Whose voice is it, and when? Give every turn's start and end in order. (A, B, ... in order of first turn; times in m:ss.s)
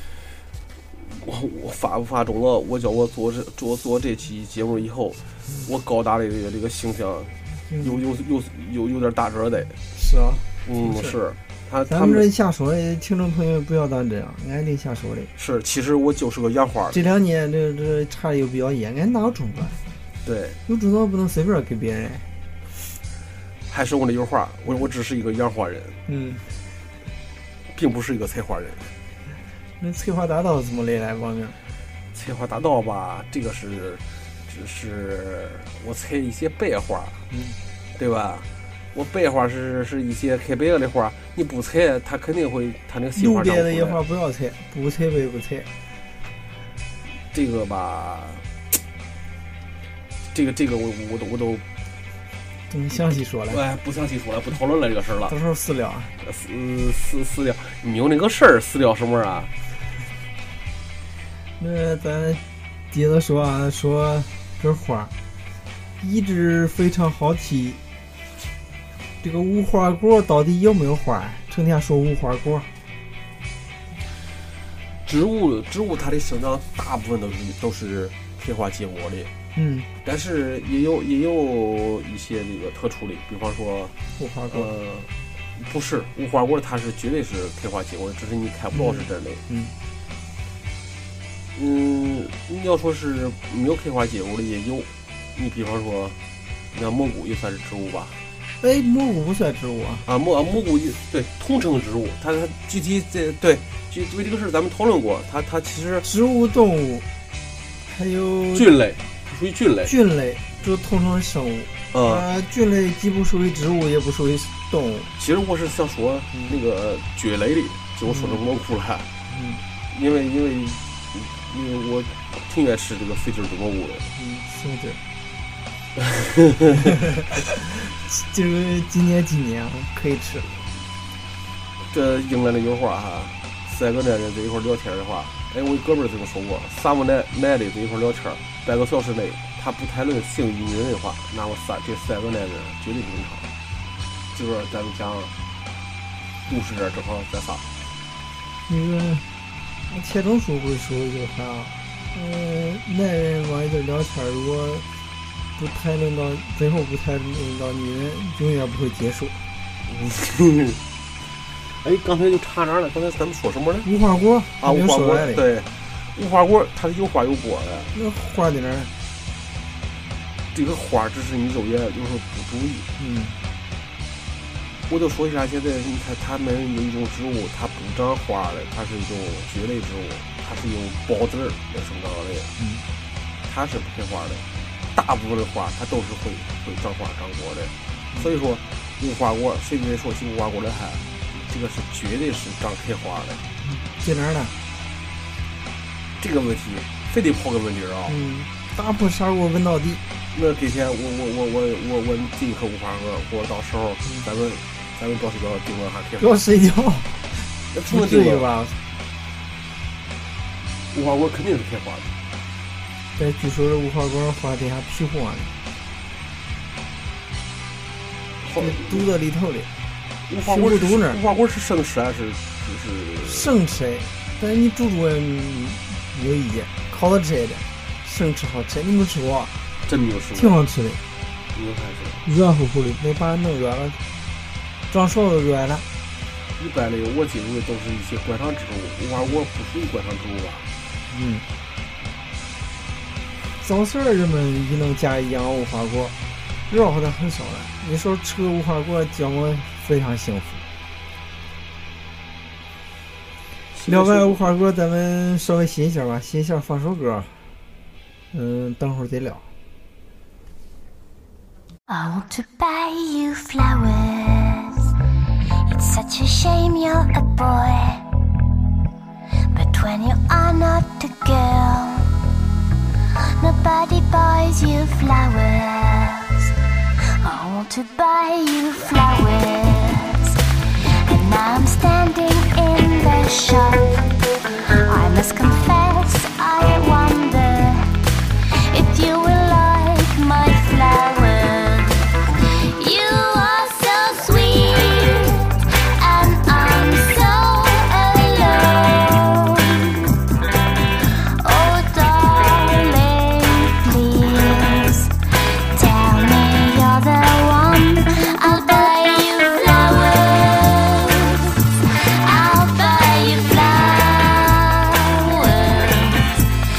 0:01.0-0:09.8 A
0:07.7-0:08.0 B
0:09.9-0:11.1 B
0:10.6-0:12.3 A
0:11.9-0:15.3 B
0:15.4-0:17.0 A
0:16.9-0:19.8 B
0:20.2-0:20.6 A
0:20.7-0:22.3 B
0:23.7-0:26.0 A
0:26.1-0:26.4 B
0:27.7-0:28.9 A
0:29.8-0:31.6 B
0:32.1-0:37.2 A
0:37.3-0:37.6 B
0:38.0-0:44.0 A
0:43.2-0:45.7 B
0:47.3-0:48.4 A
0:50.3-0:51.6 A
0:52.7-0:53.6 B
0:53.5-0:55.3 A
0:55.3-0:56.1 B
0:56.2-0:59.5 A
1:01.6-1:05.1 B
1:06.0-1:07.8 B
1:09.2-1:12.7 B
1:15.0-1:19.3 A
1:19.5-1:19.9 B
1:20.0-1:23.9 A
1:24.2-1:24.7 B
1:24.5-1:29.4 A
1:28.7-1:29.7 B
1:31.5-1:36.2 A
1:36.7-1:38.2 A
1:38.6-1:40.0 B
1:40.0-1:46.1 A
1:46.0-1:47.0 B
1:47.9-1:48.7 B
1:48.5-1:49.9 A
1:49.8-1:55.1 B
1:51.9-1:52.2 A
1:55.2-1:59.1 A
1:58.1-1:58.4 B
1:59.3-1:59.6 B
1:59.9-2:04.1 A
2:04.1-2:05.0 B
2:06.0-2:06.9 A
2:06.9-2:10.5 B
2:11.9-2:23.4 A
2:24.3-2:25.3 A
2:26.5-2:27.6 A
2:28.7-2:29.2 B
2:29.9-2:34.8 B
2:35.6-2:39.4 B
2:39.8-2:40.8 A
2:41.8-2:43.9 A
2:43.8-2:45.4 B
2:44.6-2:47.9 A
2:47.9-2:48.9 B
2:50.5-2:52.9 A
2:53.0-2:53.4 B
2:54.9-3:02.5 A
3:02.6-3:02.8 B
3:03.4-3:13.4 A
3:13.6-3:14.5 B
3:16.2-3:18.2 A
3:18.1-3:20.0 B
3:20.3-3:26.3 A
3:26.2-3:28.8 B
3:27.7-3:28.4 A
3:30.9-3:32.1 A
3:33.2-3:35.5 B
3:38.4-3:39.1 A
3:38.6-3:39.7 B
3:40.3-3:43.5 A
3:40.4-3:41.2 B
3:43.2-3:49.5 B
3:49.8-3:50.6 A
3:50.3-3:51.0 B
3:51.5-3:52.2 A
3:52.2-3:54.0 B
3:54.9-3:55.8 B
3:56.6-4:00.7 A
4:01.1-4:01.4 B
4:03.6-4:06.1 B
4:06.7-4:10.6 B
4:13.7-4:14.4 A
4:13.8-4:17.3 B
4:18.3-4:19.4 B
4:21.9-4:24.8 C
4:25.6-4:28.0 C
4:29.5-4:32.1 C
4:33.4-4:36.5 C
4:37.2-4:40.4 C
4:41.0-4:44.0 C
4:44.7-4:47.9 C
4:48.7-5:00.1 C
5:01.4-5:05.1 C
5:05.7-5:16.4 C